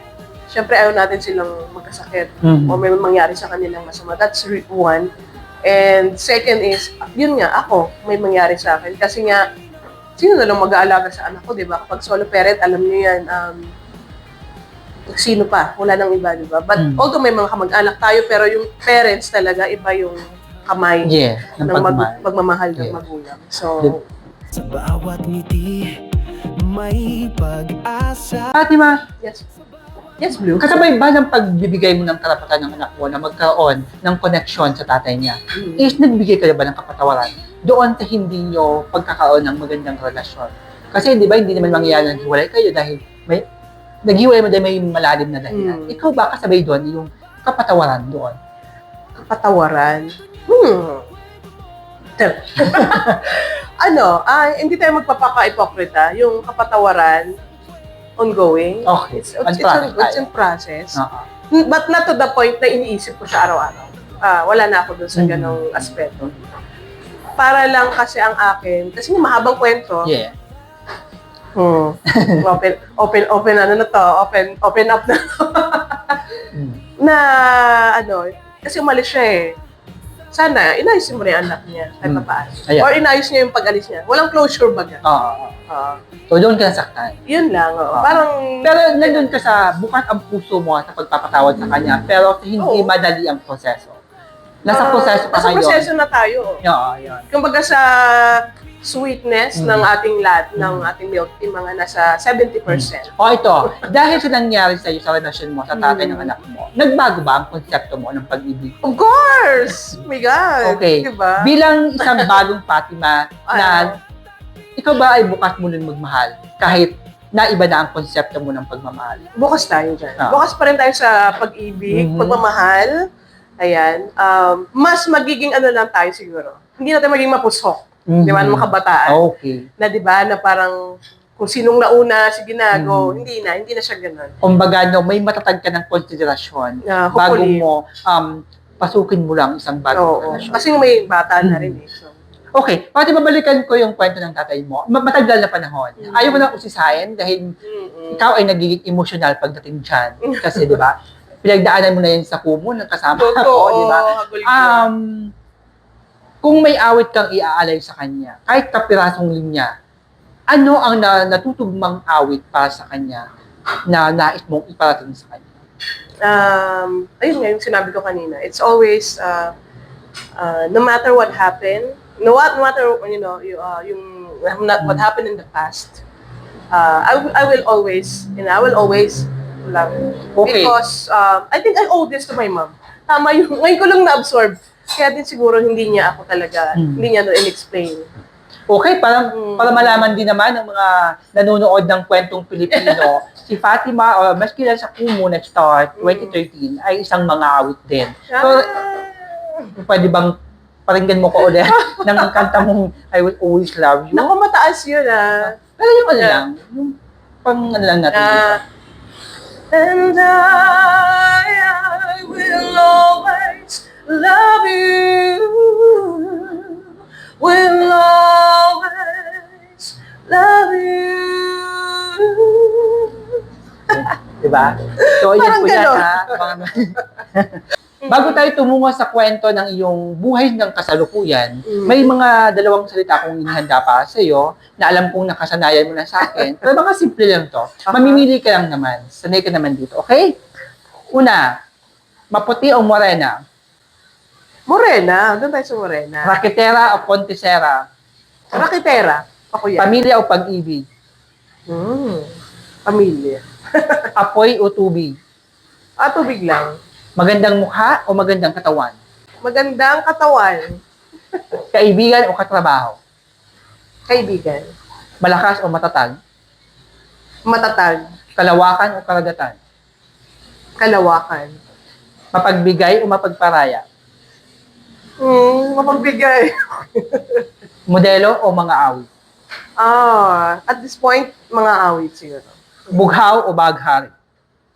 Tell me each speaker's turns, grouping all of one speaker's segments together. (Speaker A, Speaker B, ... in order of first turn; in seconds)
Speaker A: 0.5-5.1, 5.6-9.4, 10.2-13.7, 15.1-24.0, 30.2-30.8, 35.5-35.9, 41.6-42.1, 45.5-46.0, 49.3-51.1, 52.2-57.3, 58.2-66.3, 67.4-70.1, 71.5-76.2, 77.0-79.6, 80.3-85.0, 85.7-86.0, 87.3-89.3, 92.6-92.9, 94.7-96.6, 97.3-103.9, 105.7-106.3, 108.8-112.4, 113.5-114.0, 119.3-123.0, 123.6-129.2, 129.8-130.8, 131.4-134.3, 136.8-137.7, 139.9-142.1, 146.0-146.5, 147.6-148.2, 150.2-150.8, 153.2-154.9, 166.2-169.5, 170.4-176.0, 176.7-188.1, 189.3-190.3, 192.7-193.1, 196.0-196.4, 198.3-199.7, 201.4-202.6, 204.1-205.6, 206.2-206.4, 208.1-208.6, 209.7-216.8, 217.4-224.2, 224.9-226.6, 228.0-228.4, 231.7-232.1, 237.8-238.2, 244.7-246.3, 248.5-249.9, 251.7-252.3, 252.8-254.1, 256.0-256.8, 259.4-260.8, 261.3-261.6, 264.1-264.7, 267.5-268.0, 270.8-271.5, 275.2-277.5, 279.8-282.9
Speaker B: 2.4-2.8, 16.8-17.0, 21.0-22.2, 22.7-23.0, 28.5-29.0, 30.6-43.4, 44.0-48.4, 52.7-53.2, 58.8-60.3, 61.0-61.2, 65.1-66.3, 70.0-70.3, 72.1-72.4, 76.5-76.8, 82.0-82.9, 85.0-85.5, 86.3-87.1, 87.9-94.0, 94.6-95.9, 96.6-97.2, 99.5-99.9, 100.6-100.9, 102.7-108.7, 110.6-113.9, 114.8-119.2, 121.9-122.4, 128.1-129.6, 132.7-133.3, 134.4-140.6, 141.4-141.8, 142.6-147.5, 148.1-155.3, 156.4-159.7, 160.5-163.2, 163.9-165.4, 180.3-180.8, 186.7-187.1, 188.7-198.8, 199.8-200.3, 200.9-204.3, 205.7-208.6, 223.9-240.4, 241.1-241.6, 242.3-243.4, 246.2-247.8, 249.8-250.8, 254.2-255.1, 257.2-259.0, 261.7-263.0, 265.2-266.2, 268.4-269.6, 272.3-273.8, 277.9-279.1, 282.9-284.1
Speaker C: 24.5-26.0, 26.6-28.6